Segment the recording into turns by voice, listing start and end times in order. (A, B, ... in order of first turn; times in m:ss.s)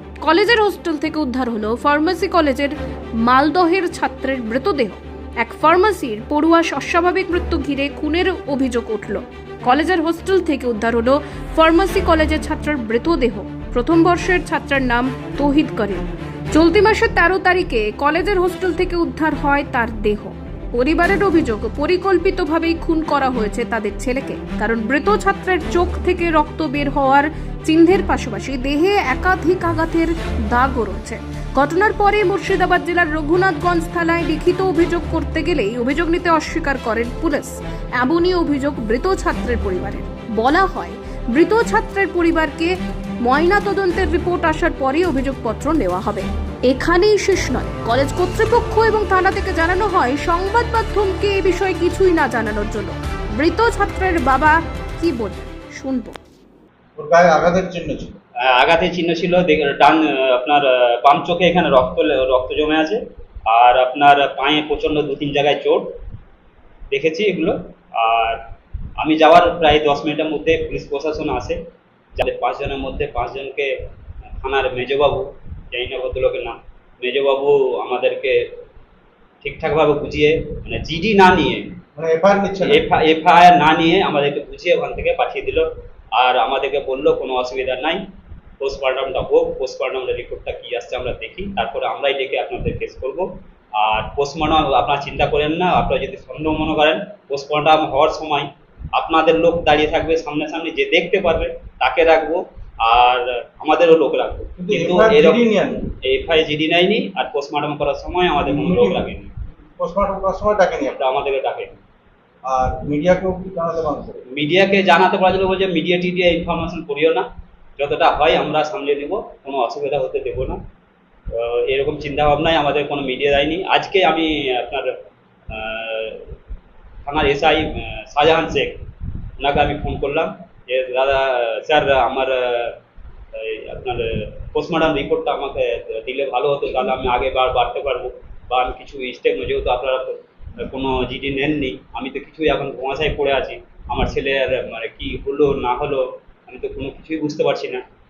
0:00.2-0:56.2 A
0:57.0-0:58.2 B
0:58.4-1:05.9 C
1:06.9-1:08.4 C
1:09.0-1:11.6 C
1:12.2-1:13.7 C
1:14.4-1:18.4 C
1:19.4-1:21.7 C
1:22.0-1:22.8 B
1:22.6-1:28.0 C
1:28.6-1:49.3 C
1:44.6-1:45.8 B
1:48.4-1:49.0 B
1:49.8-1:51.0 B
1:50.9-1:51.8 C
1:52.4-1:54.2 B
1:54.3-1:57.3 C
1:57.8-2:00.6 C
2:01.3-2:04.9 C
2:05.5-2:06.3 C
2:07.0-2:08.8 C
2:09.4-2:12.8 C
2:13.3-2:27.8 C